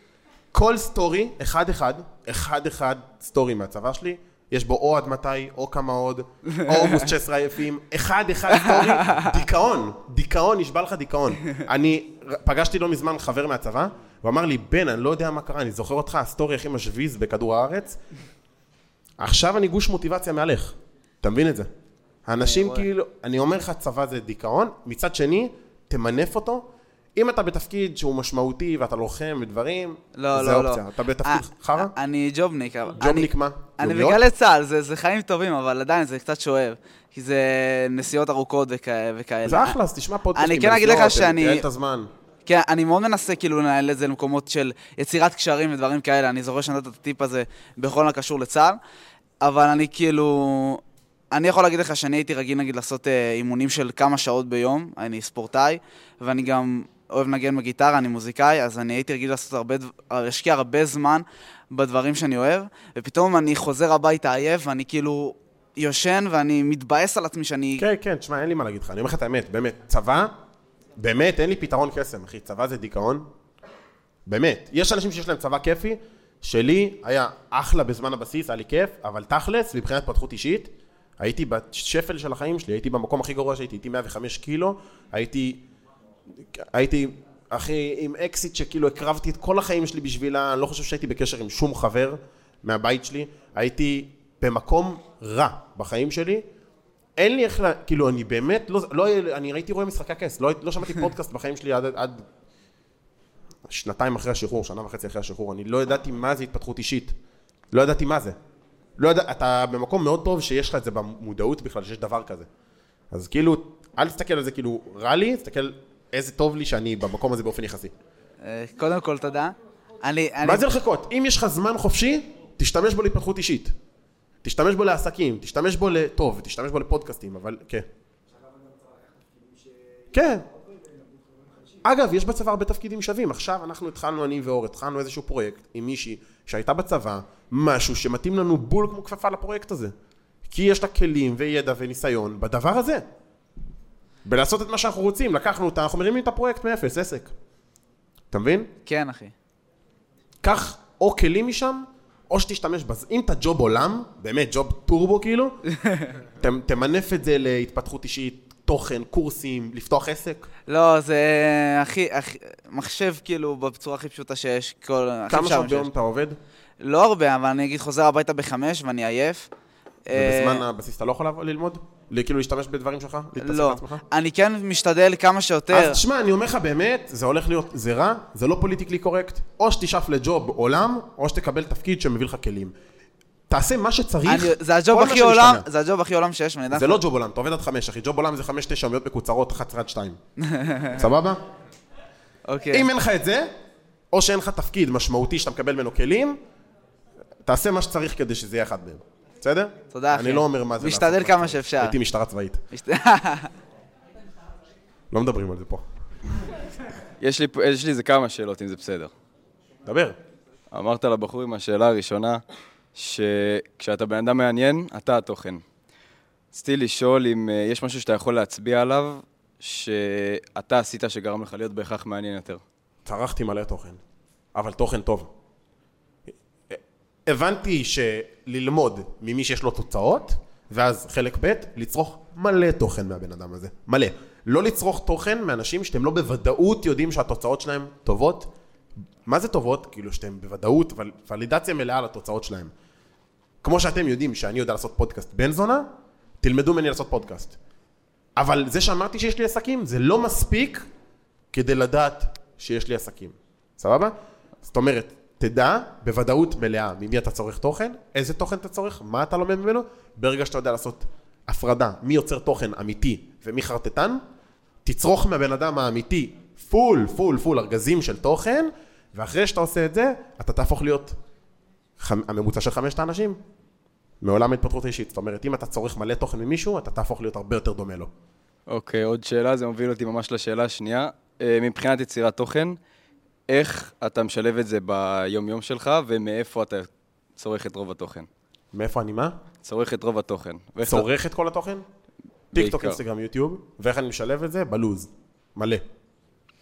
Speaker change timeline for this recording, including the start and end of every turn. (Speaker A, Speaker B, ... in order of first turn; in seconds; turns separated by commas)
Speaker A: 0.5-18.0, Speaker B: 8.6-9.1, Speaker A: 19.2-21.7, Speaker A: 22.2-31.9, Speaker B: 22.4-22.8, Speaker B: 30.2-39.8, Speaker A: 33.0-34.2, Speaker A: 39.4-42.1, Speaker B: 40.4-41.6, Speaker B: 42.5-48.8, Speaker B: 49.4-50.8, Speaker B: 51.3-67.8, Speaker A: 67.8-70.3, Speaker A: 71.0-73.3, Speaker A: 74.3-85.6, Speaker A: 86.5-96.5, Speaker A: 97.2-102.2, Speaker A: 103.7-107.1, Speaker A: 107.7-108.4, Speaker A: 109.0-112.5, Speaker A: 113.1-117.9, Speaker B: 118.4-120.6, Speaker A: 120.4-123.7, Speaker A: 124.4-127.9, Speaker A: 130.1-130.4, Speaker A: 131.8-139.9, Speaker A: 140.5-143.0, Speaker A: 144.2-147.3, Speaker A: 148.3-148.7, Speaker B: 148.8-149.3, Speaker A: 150.4-155.6, Speaker A: 156.4-160.5, Speaker B: 160.7-165.9, Speaker A: 165.3-166.4, Speaker B: 166.8-169.5, Speaker B: 170.1-170.6, Speaker A: 170.1-174.0, Speaker B: 173.3-176.0, Speaker A: 175.7-182.7, Speaker A: 183.5-185.7, Speaker B: 184.2-187.0, Speaker A: 186.7-190.2, Speaker B: 190.5-190.9, Speaker A: 190.9-191.4, Speaker B: 192.5-192.9, Speaker A: 192.7-193.5, Speaker A: 194.1-196.4, Speaker A: 197.4-202.6, Speaker B: 199.9-201.9, Speaker B: 202.7-203.5, Speaker A: 205.1-205.8, Speaker C: 207.2-209.1, Speaker A: 209.8-210.2, Speaker C: 210.7-212.4, Speaker C: 212.9-215.6, Speaker C: 216.5-222.6, Speaker A: 223.0-224.0, Speaker A: 224.5-225.3, Speaker A: 226.7-238.5, Speaker A: 239.2-242.7, Speaker A: 243.6-245.9, Speaker A: 246.4-247.6, Speaker A: 248.4-250.8, Speaker A: 251.5-264.2, Speaker A: 264.8-271.2, Speaker A: 272.0-273.4, Speaker A: 274.2-278.1, Speaker C: 278.7-282.8, Speaker C: 283.5-288.3, Speaker A: 288.7-289.4, Speaker C: 289.6-291.1, Speaker A: 290.8-291.8, Speaker C: 292.5-293.0, Speaker A: 292.5-295.8